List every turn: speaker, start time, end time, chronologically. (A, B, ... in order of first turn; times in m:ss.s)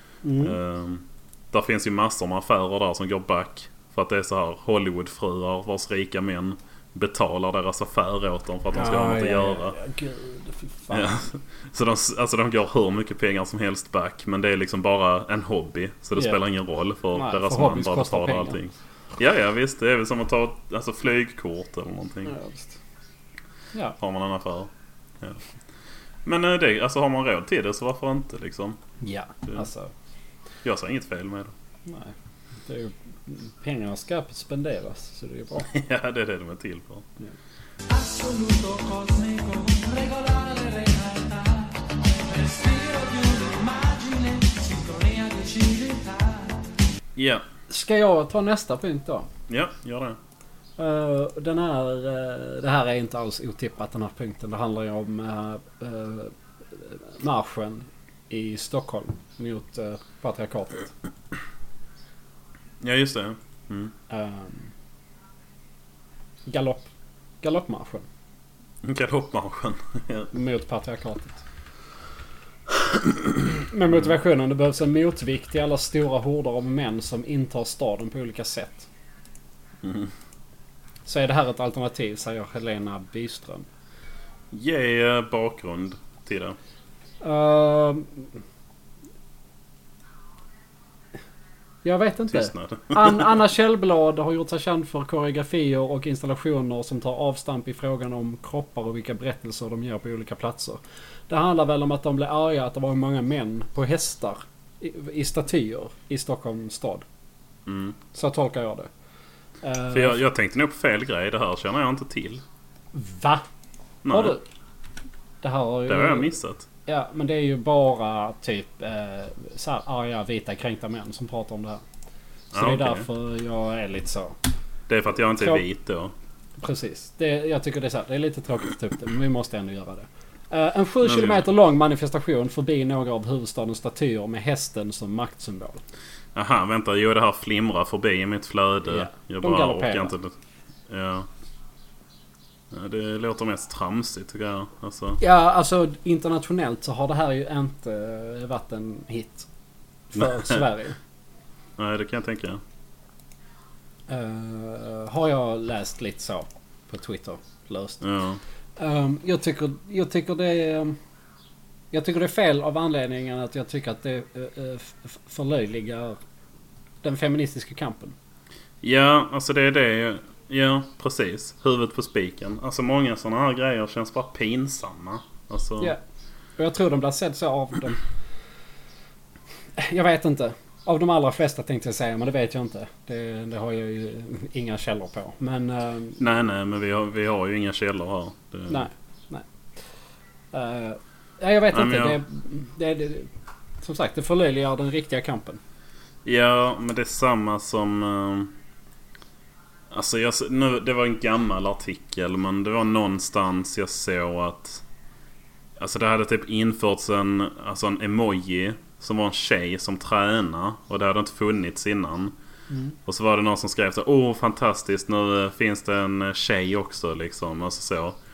0:00.2-0:00.6 A
0:00.4-0:09.8 B
0:08.7-0:11.2 A
0:10.9-0:22.3 B
0:17.1-0:18.6 A
0:22.2-0:22.8 A
0:24.0-0:25.4 B
0:26.2-0:28.8 B
0:29.0-0:29.9 A
0:30.6-0:31.5 B
0:31.8-0:32.1 A
0:32.6-0:35.7 A
0:35.6-0:37.1 B
0:37.9-0:46.7 C
0:47.2-0:47.4 B
0:47.7-0:49.3 A
0:49.5-0:50.2 B
0:50.8-1:00.9 A
1:02.8-1:03.9 B
1:04.1-1:04.7 A
1:06.5-1:06.9 A
1:07.4-1:08.0 A
1:08.8-1:10.3 B
1:10.3-1:11.4 A
1:13.6-1:18.9 A
1:19.8-1:20.1 B
1:21.0-1:23.7 A
1:24.5-1:26.6 B
1:27.2-1:28.3 A
1:31.8-1:47.0 A
1:32.3-1:33.4 B
1:47.6-1:48.0 B
1:48.1-1:48.9 A
1:49.6-1:50.2 A
1:49.9-1:52.4 B
1:52.9-1:53.4 A
1:54.0-1:54.4 B
1:54.1-1:54.4 A
1:55.4-1:56.3 A
1:55.9-1:56.6 B
1:56.8-2:01.8 A
2:02.5-2:04.4 A
2:02.5-2:03.1 B
2:04.9-2:06.1 B
2:05.4-2:05.6 A
2:06.6-2:15.8 A
2:11.0-2:11.4 B
2:16.3-2:20.3 B
2:18.8-2:20.1 A
2:20.9-2:21.3 B
2:22.7-2:25.2 B
2:25.2-2:29.5 A
2:30.1-2:31.0 A
2:30.2-2:30.6 B
2:31.8-2:32.6 B
2:34.1-2:38.0 A
2:38.0-2:38.4 B
2:38.8-2:41.0 A
2:41.9-2:46.2 A
2:47.0-2:48.1 A
2:48.8-2:55.9 B
2:56.6-2:58.0 A
2:59.8-3:06.2 A
3:06.2-3:08.9 B
3:08.7-3:09.4 A
3:10.5-3:13.3 A
3:11.7-3:12.2 B
3:13.8-3:15.6 A
3:16.2-3:18.5 B
3:19.9-3:24.8 B
3:25.8-3:32.3 B
3:32.7-3:33.0 A
3:33.0-3:38.2 B